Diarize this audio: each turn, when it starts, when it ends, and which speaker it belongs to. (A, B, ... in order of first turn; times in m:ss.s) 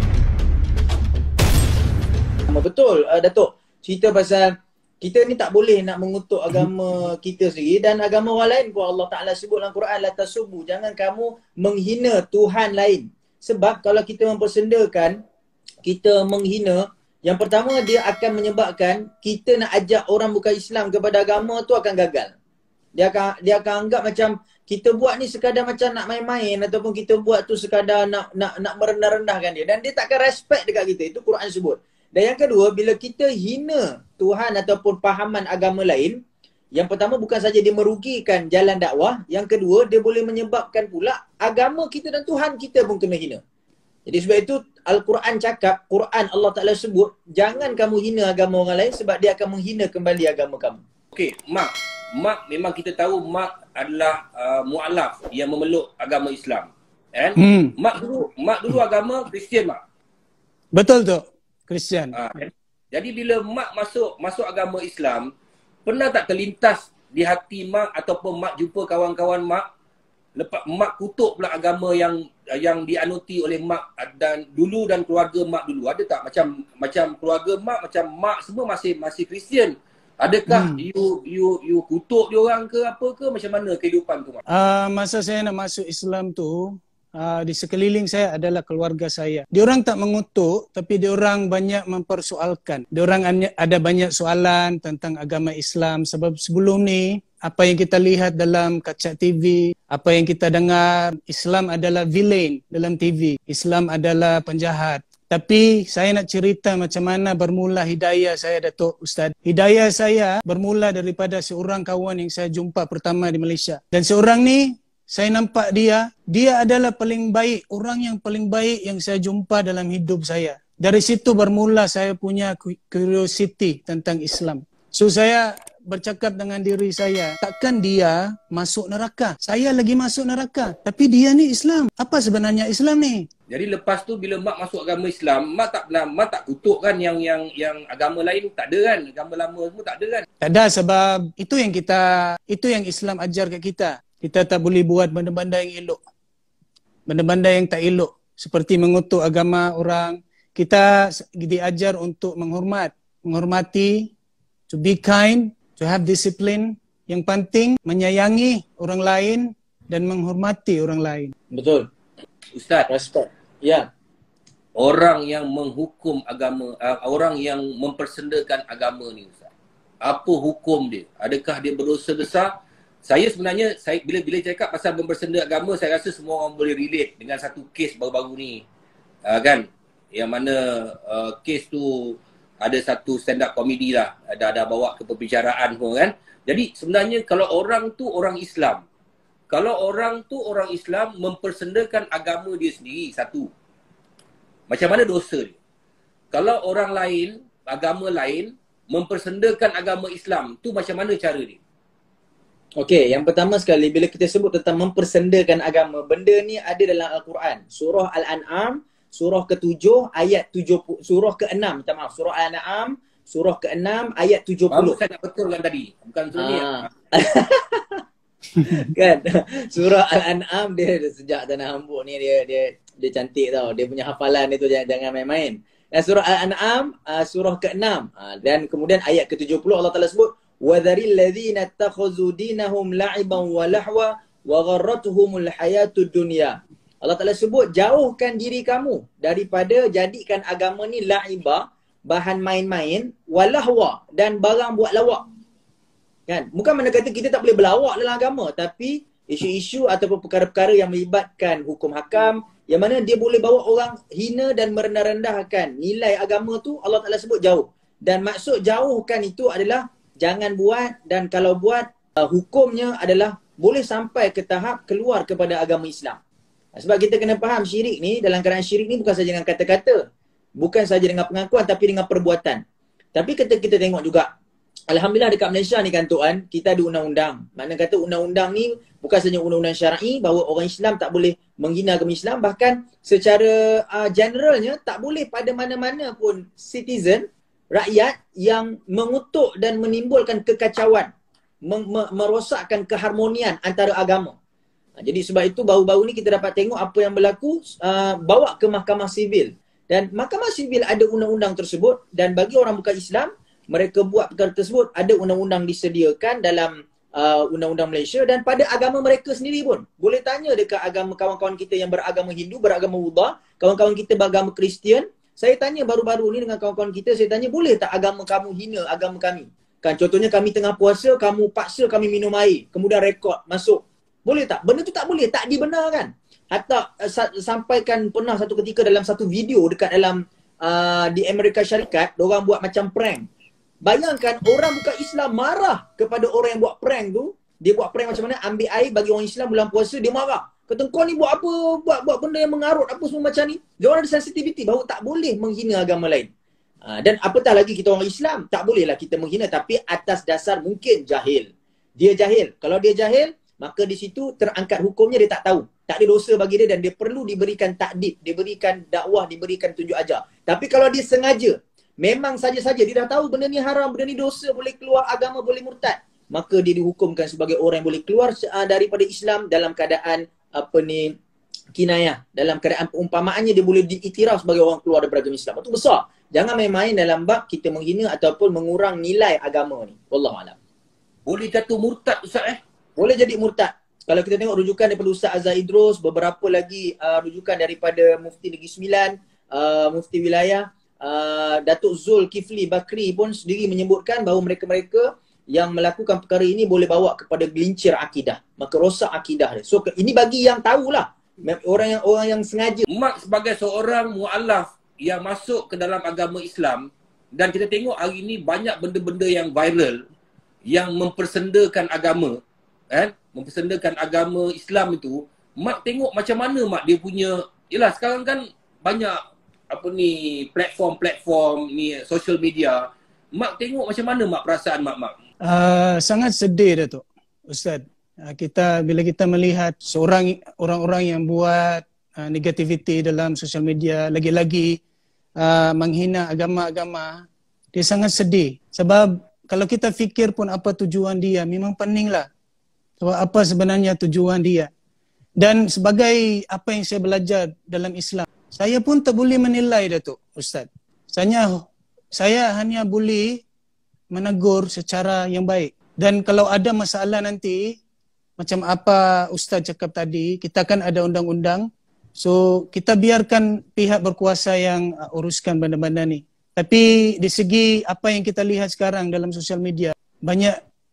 0:02.5-0:15.2 A
0:15.8-0:22.3 A
0:23.0-0:36.2 A
0:36.7-0:43.4 A
0:44.1-0:50.8 A
0:51.1-0:59.8 B
0:57.4-0:57.7 C
1:00.8-1:02.2 C
1:02.1-1:05.3 B
1:05.8-1:09.6 B
1:10.4-1:24.4 B
1:20.5-1:20.8 C
1:24.5-2:13.3 C
2:13.5-2:20.3 B
2:20.4-2:26.0 C
2:27.1-2:34.1 C
2:34.7-2:41.3 C
2:41.5-2:41.9 A
2:42.5-2:42.9 B
2:42.9-2:43.9 A
2:44.8-2:49.5 B
2:50.0-2:52.5 B
2:53.0-2:58.6 B
2:59.3-3:08.8 B
3:09.5-3:13.5 B
3:14.7-3:15.6 B
3:16.3-3:21.6 B
3:22.8-3:35.0 A
3:34.7-3:36.9 B
3:36.4-3:38.0 A
3:38.6-4:05.2 A
4:06.3-4:26.2 A
4:26.7-4:30.0 A
4:30.6-4:32.6 A
4:33.2-4:34.3 A
4:34.9-4:51.1 A
4:51.6-4:54.4 A
4:55.0-5:33.3 A
5:33.8-5:46.3 A
5:46.8-6:11.2 A
6:11.8-6:20.6 A
6:21.3-6:22.6 B
6:23.0-6:42.9 A
6:42.9-6:50.0 B
6:50.7-6:52.4 B
6:52.9-6:59.2 B
6:59.7-7:05.2 B
7:05.4-7:14.8 C
7:15.4-7:22.3 C
7:23.0-7:24.7 C
7:25.4-7:31.6 C
7:32.2-7:33.4 C
7:34.1-7:37.8 C
7:38.4-7:41.7 C
7:42.2-7:50.6 C